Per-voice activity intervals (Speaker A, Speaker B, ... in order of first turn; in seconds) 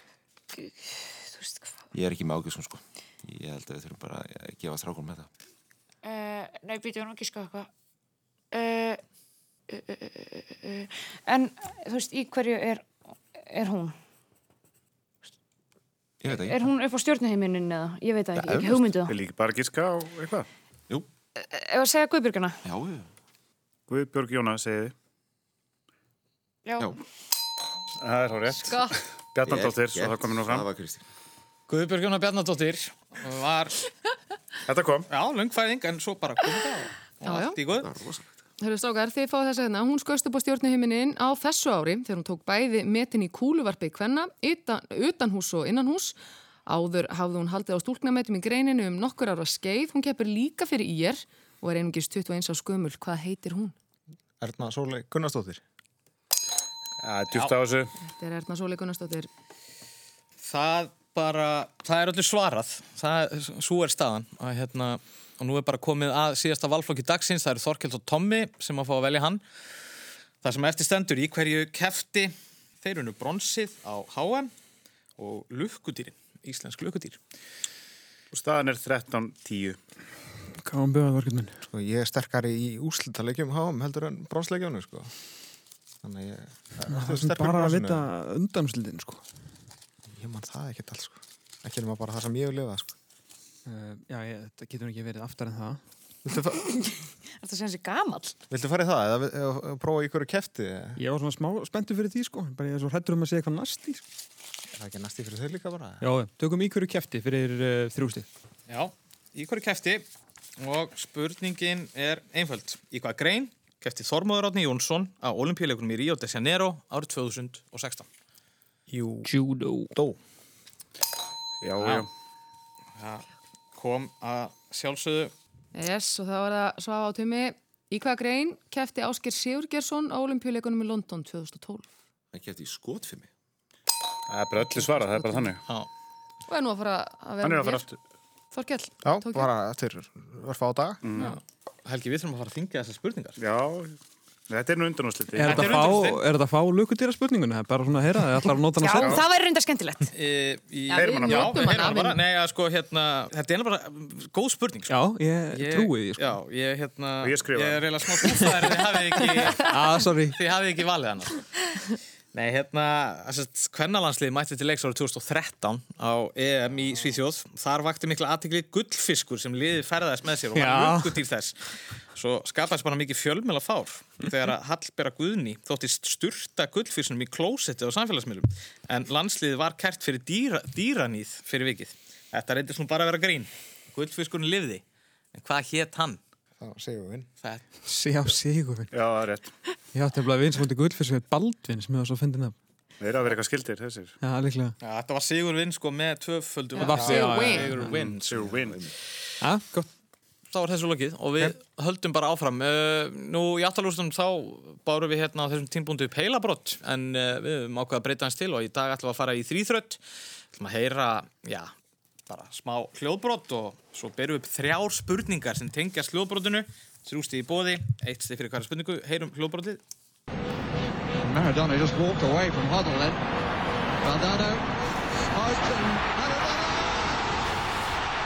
Speaker A: 0.6-1.8, 6.0-7.7, 8.5-9.0, 9.7-13.9, 16.3-19.1, 21.4-22.6, 26.6-26.9, 96.8-98.4, 148.8-150.1, 150.9-151.2
Speaker B: 1.9-5.3, 16.2-16.7, 18.4-18.9, 22.6-23.1, 29.4-31.1, 37.8-38.3, 132.3-133.3
Speaker C: 19.1-20.5, 23.9-24.9, 28.0-30.7, 34.7-35.1, 57.0-57.9, 78.3-79.8, 121.6-122.1, 134.3-135.6, 137.4-138.0, 141.0-141.4, 143.4-144.0, 144.5-146.0, 149.0-149.2, 150.9-151.7, 157.2-158.5, 188.9-189.5, 193.0-194.2, 197.7-198.9
Speaker D: 28.7-28.9, 37.2-37.6, 38.6-53.7, 58.0-59.3, 125.7-131.8, 136.5-137.8, 138.5-139.5, 150.9-152.2, 196.8-197.8
Speaker E: 31.7-33.8, 35.1-37.9, 60.4-69.4, 70.4-74.5, 75.2-77.2, 108.7-110.1, 110.6-118.1, 121.8-122.1, 123.0-125.3, 141.2-143.4, 145.4-146.2, 150.2-154.9, 155.5-159.7, 160.3-161.5, 162.3-171.5, 172.2-184.8, 185.3-186.2, 194.8-198.6, 200.5-210.0, 210.5-211.7, 212.3-219.8
Speaker F: 54.4-55.6, 81.7-85.1, 86.0-88.1, 90.1-93.0, 96.2-96.7, 98.5-101.0, 104.7-106.0, 139.0-141.0, 186.6-187.3
Speaker G: 80.6-81.6, 86.9-89.2, 93.7-95.8, 101.0-104.0, 106.0-108.3, 119.2-119.9, 145.4-149.2, 154.9-156.3, 159.7-160.4, 170.6-171.2, 187.9-188.9, 189.9-192.6, 194.2-194.7, 196.8-197.9, 199.4-199.9
Speaker H: 221.2-223.2, 224.0-224.7, 225.3-227.3